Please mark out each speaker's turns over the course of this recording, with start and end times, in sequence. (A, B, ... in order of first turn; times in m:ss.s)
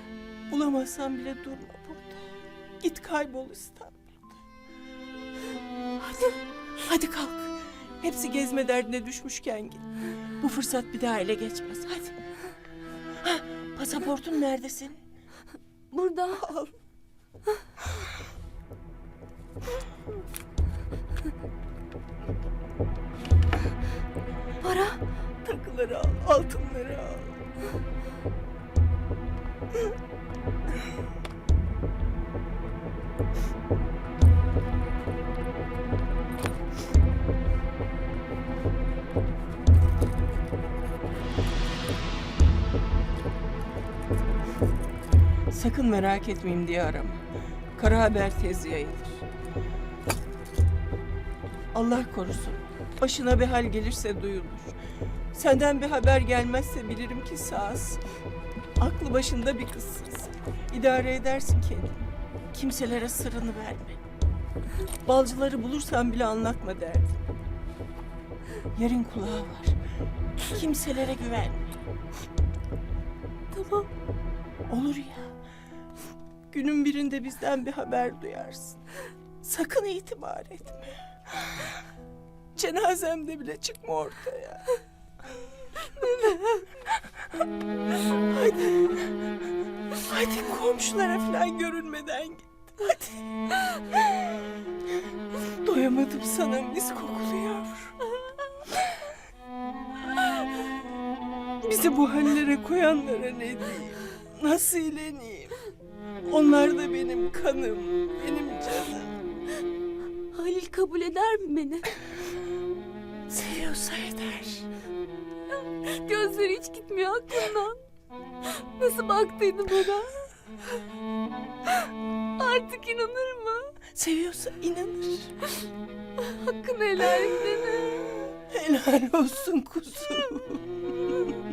0:00.5-0:02.2 A
0:02.8-0:04.3 A
0:06.0-0:09.9 A
0:10.4-0:12.2 A
0:13.2-0:15.0 A
0:15.9-0:16.4 B
0:16.4-0:16.7 A
0:24.6-0:25.0 B
0:25.4-0:27.4 A
0:45.5-0:47.2 A
0:47.8-0:49.2 A
0:51.7-0:54.8 A
0:55.3-0:58.0 A
0:58.8-1:04.0 A
1:05.0-1:07.2 A
1:08.8-1:09.8 A
1:10.4-1:11.8 A
1:13.5-1:13.9 B
1:14.7-1:15.3 A
1:16.5-1:18.8 A
1:19.4-1:21.8 A
1:22.6-1:24.8 A
1:26.0-1:26.6 A
1:28.3-1:29.1 A
1:30.1-1:33.2 A
1:33.9-1:34.3 A
1:35.5-1:38.1 A
1:41.6-1:45.6 A
1:46.3-1:49.2 A
1:50.3-1:51.9 B
1:53.3-1:54.7 A
1:55.7-1:57.8 B
1:58.5-2:00.3 B
2:01.7-2:03.7 B
2:03.9-2:05.4 A
2:06.2-2:08.2 B
2:08.5-2:10.6 A